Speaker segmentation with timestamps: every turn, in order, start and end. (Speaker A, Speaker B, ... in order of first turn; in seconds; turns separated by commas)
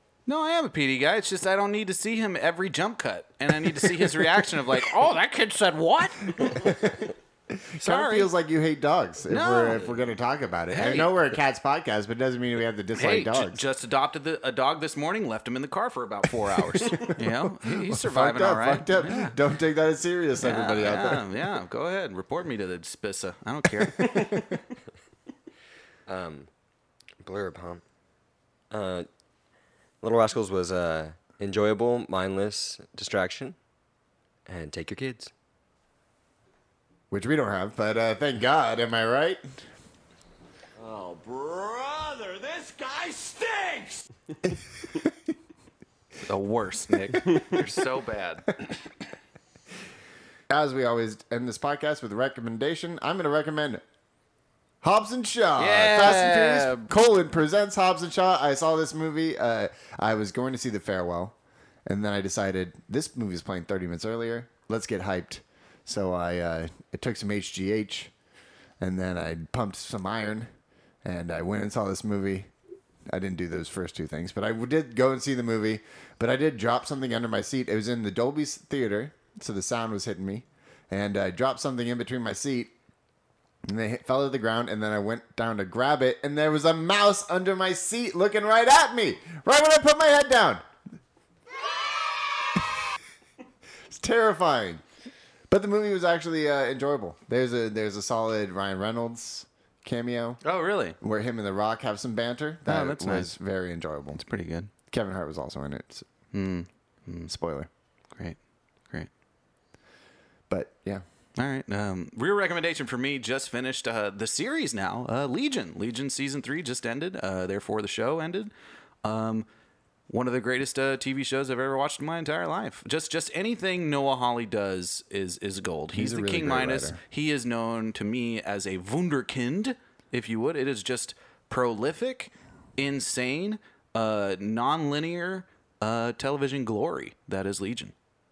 Speaker A: 0.3-6.8, Speaker B: 6.5-6.9, Speaker B: 7.5-13.6, Speaker A: 7.8-8.3, Speaker A: 9.3-10.0, Speaker A: 10.7-11.3, Speaker A: 13.0-19.4, Speaker B: 16.6-21.3, Speaker A: 20.4-24.4, Speaker B: 23.8-24.6, Speaker C: 26.1-26.5, Speaker C: 27.2-27.8, Speaker C: 28.7-29.1, Speaker C: 30.0-33.6, Speaker C: 34.5-35.3, Speaker B: 37.1-39.6, Speaker D: 40.8-44.1, Speaker B: 44.5-45.1, Speaker A: 46.2-48.6, Speaker B: 47.3-47.6, Speaker B: 50.5-53.8, Speaker B: 54.8-68.1, Speaker A: 55.6-56.9, Speaker B: 68.8-70.5, Speaker B: 71.0-72.5, Speaker B: 73.1-82.7, Speaker B: 83.7-90.7, Speaker B: 93.9-94.8, Speaker B: 95.5-100.4, Speaker A: 100.4-101.0, Speaker B: 101.0-104.2, Speaker A: 102.7-103.3, Speaker A: 104.2-104.7, Speaker B: 104.9-106.1, Speaker A: 106.3-107.3, Speaker B: 107.3-107.7, Speaker B: 110.5-111.0, Speaker A: 111.4-118.5, Speaker A: 119.0-119.5, Speaker A: 120.1-137.9, Speaker B: 125.9-127.0